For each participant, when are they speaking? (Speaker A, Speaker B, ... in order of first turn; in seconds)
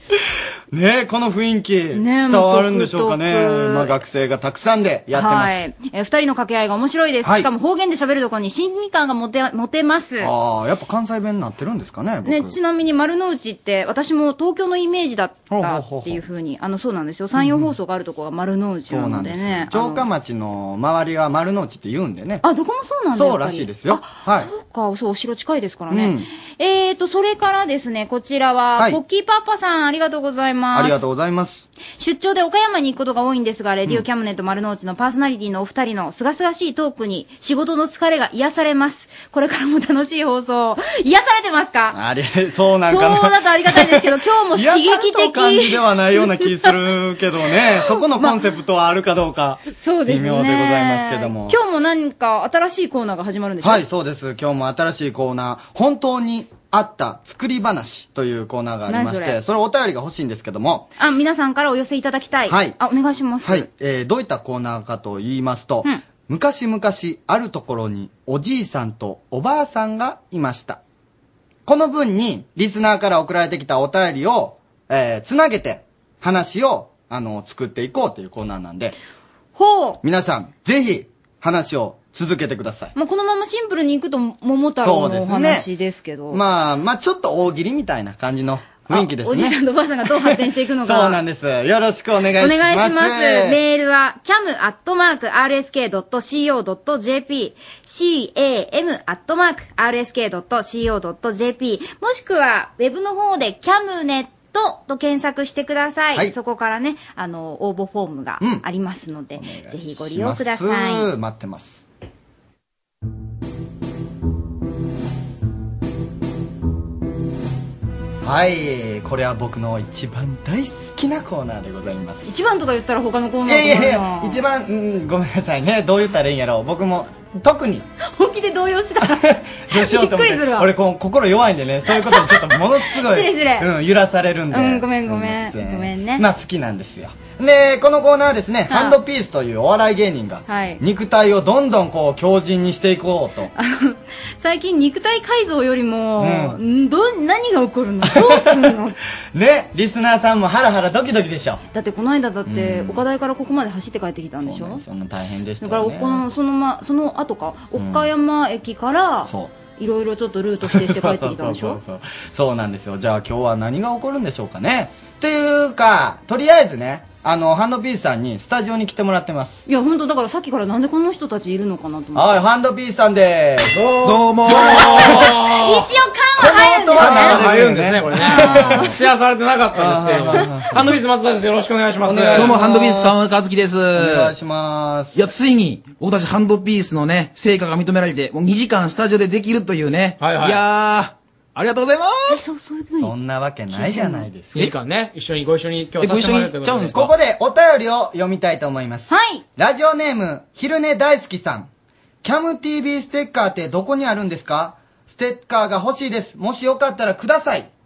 Speaker A: 0.7-5.6, 7.2-7.5, 10.2-12.6, 15.5-16.2, 17.4-17.7, 18.9-22.4, 23.1-24.5, 25.9-26.3, 30.7-31.7, 41.9-51.6, 53.6-60.9, 62.5-62.8, 63.4-70.8, 71.7-79.0, 80.0-82.9, 84.8-85.7, 86.3-93.6, 109.4-111.9, 118.2-122.3, 123.5-127.9, 129.0-143.5, 146.2-146.6, 148.0-148.7, 149.3-151.6, 152.5-153.0, 154.4-156.2, 157.8-158.1, 159.2-159.6, 160.6-169.6, 172.2-173.9, 174.5-175.2, 176.4-178.9, 179.8-180.9, 182.0-183.2, 184.0-185.2, 193.0-194.6, 196.9-201.7, 202.2-207.7
Speaker B: 1.9-4.0, 5.1-10.3, 12.3-20.1, 22.4-31.0, 32.0-42.0, 42.9-46.6, 49.7-53.8, 58.9-59.4, 61.0-63.7, 79.5-80.0, 83.0-86.4, 88.9-91.2, 92.4-111.1, 122.2-124.4, 128.0-130.7, 132.1-133.7, 134.5-136.2, 138.7-139.0, 140.5-140.8, 143.6-149.0, 151.7-154.8, 155.6-161.8, 169.7-172.4, 174.6-177.4, 178.4-178.9, 192.3-193.1, 193.7-194.3, 199.1-199.4
Speaker C: 173.8-175.9, 177.0-182.6, 190.2-190.6, 194.5-196.9
Speaker D: 174.0-175.3, 182.4-184.3, 185.2-192.4, 196.0-197.1